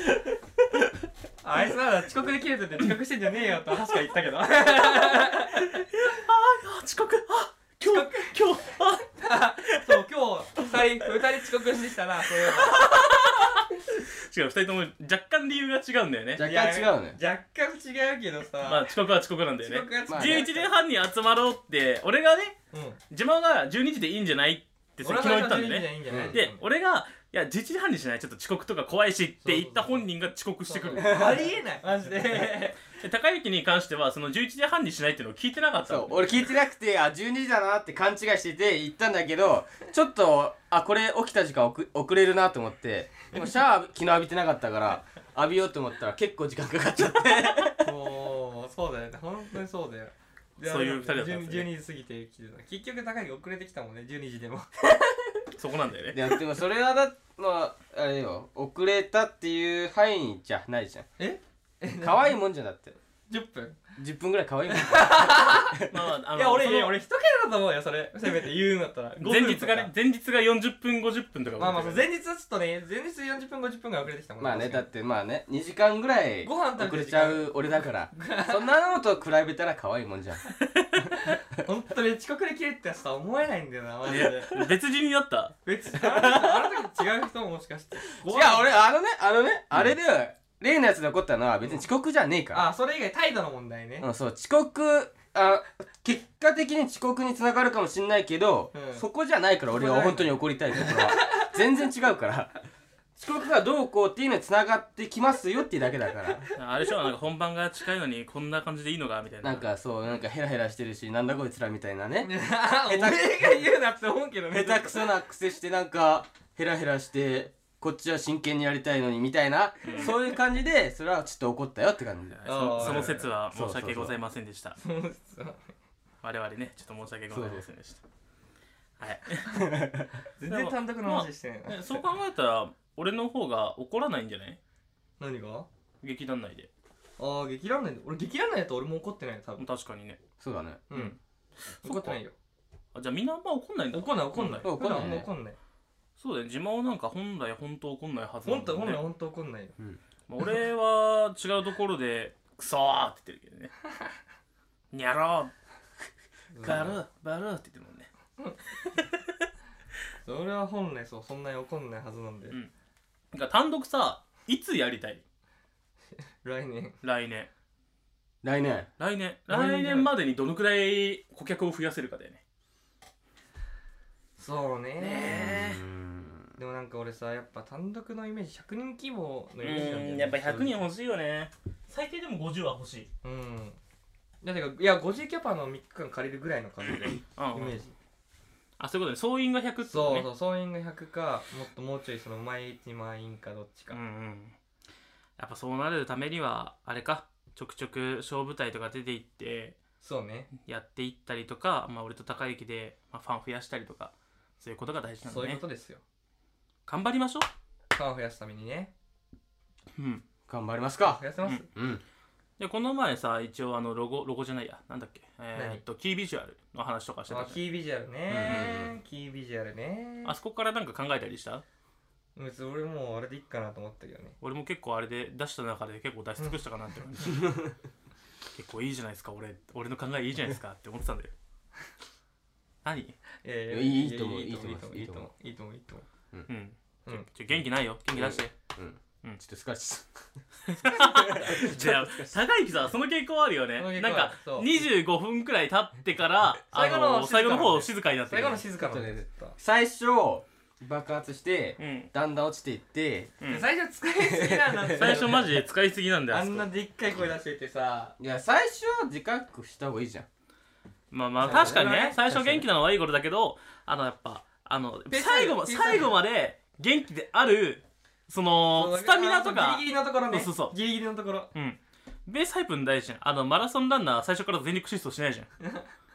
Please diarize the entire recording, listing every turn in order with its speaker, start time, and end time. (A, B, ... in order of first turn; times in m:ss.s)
0:01.4-0:05.9 A
0:04.9-0:09.1 B
0:07.8-0:08.4 A
0:09.2-0:13.6 A
0:09.7-0:10.0 B
0:12.4-0:16.5 B
0:16.4-0:17.2 C
0:16.4-0:18.9 A
0:18.6-0:22.6 B
0:19.6-0:20.7 A
0:20.1-0:20.5 C
0:22.7-0:23.0 A
0:23.1-0:31.4 B
0:25.0-0:26.6 A
0:26.1-0:26.4 C
0:29.4-0:30.1 A
0:30.7-0:32.8 A
0:31.0-0:31.5 C
0:32.9-0:36.5 B
0:35.8-0:47.9 C
0:47.8-0:55.4 A
0:50.6-0:51.7 B
0:55.6-0:56.2 B
0:56.1-1:01.1 C
1:01.2-1:02.4 A
1:02.0-1:03.0 C
1:03.3-1:03.8 A
1:04.0-1:05.9 C
1:04.7-1:09.9 A
1:05.9-1:07.0 B
1:09.2-1:12.1 B
1:11.6-1:14.9 A
1:14.4-1:20.5 C
1:16.4-1:17.5 A
1:18.1-1:18.7 A
1:21.1-1:24.7 A
1:24.1-1:25.6 B
1:25.7-1:28.8 A
1:26.0-1:26.9 C
1:28.2-1:32.7 C
1:32.5-1:34.1 A
1:34.0-1:42.5 C
1:38.7-1:39.1 A
1:39.7-1:41.6 A
1:43.2-1:46.5 C
1:46.6-1:49.7 B
1:49.4-1:52.3 C
1:52.2-1:55.2 A
1:52.9-1:53.5 C
1:54.5-2:04.1 C
1:59.8-2:00.1 B
2:02.3-2:04.8 B
2:02.5-2:03.3 A
2:04.8-2:05.7 A
2:06.2-2:08.0 B
2:07.3-2:07.7 C
2:09.0-2:09.7 B
2:09.5-2:10.1 C
2:10.4-2:12.0 A
2:10.5-2:14.6 B
2:15.2-2:15.7 A
2:16.0-2:16.7 B
2:17.2-2:19.6 A
2:19.6-2:20.2 B
2:20.4-2:20.8 C
2:20.9-2:21.2 A
2:21.8-2:22.2 B
2:21.8-2:22.3 A
2:23.0-2:25.1 B
2:23.9-2:25.6 A
2:24.6-2:25.3 C
2:26.2-2:29.0 B
2:28.4-2:29.7 A
2:30.3-2:33.7 B
2:34.9-2:35.5 B
2:36.5-2:37.0 A
2:36.6-2:38.1 B
2:40.2-2:42.6 A
2:43.3-2:45.2 B
2:46.4-2:47.0 A
2:47.0-2:47.5 B
2:48.4-2:48.9 C
2:49.0-2:52.4 B
2:49.5-2:50.1 A
2:54.4-2:55.6 A
2:55.0-2:55.8 B
2:55.2-2:56.6 C
2:56.6-3:00.8 A
2:59.6-3:03.1 B
3:03.2-3:03.8 A
3:04.4-3:07.9 A
3:06.9-3:07.8 B
3:08.8-3:10.3 B
3:09.9-3:14.0 A
3:13.9-3:14.6 B
3:15.4-3:19.8 B
3:20.0-3:20.5 A
3:20.5-3:25.6 B
3:25.3-3:26.0 A
3:26.9-3:27.5 B
3:27.9-3:28.9 A
3:30.0-3:30.2 B
3:30.5-3:31.2 C
3:31.0-3:31.7 A
3:31.7-3:32.0 C
3:32.6-3:37.6 B
3:35.6-3:35.8 A
3:37.3-3:40.4 A
3:38.3-3:38.9 C
3:38.4-3:38.8 B
3:40.2-3:41.6 B
3:42.4-3:44.4 A
3:44.4-3:47.6 B
3:48.5-3:51.3 B
3:52.8-3:53.2 B
3:53.4-3:56.1 A
3:53.7-3:55.3 C
3:56.5-3:58.5 B
3:58.1-4:02.3 C
4:00.7-4:08.6 B
4:01.3-4:01.7 A
4:03.8-4:04.9 A
4:06.7-4:09.6 A
4:08.8-4:13.4 C
4:11.8-4:12.1 B
4:13.5-4:15.6 A
4:14.2-4:15.4 C
4:15.0-4:16.7 B
4:16.3-4:18.2 A
4:18.2-4:20.3 C
4:21.1-4:30.8 B
4:21.4-4:22.2 A
4:21.5-4:22.7 C
4:25.1-4:26.2 A
4:28.7-4:31.5 A
4:31.5-4:35.5 B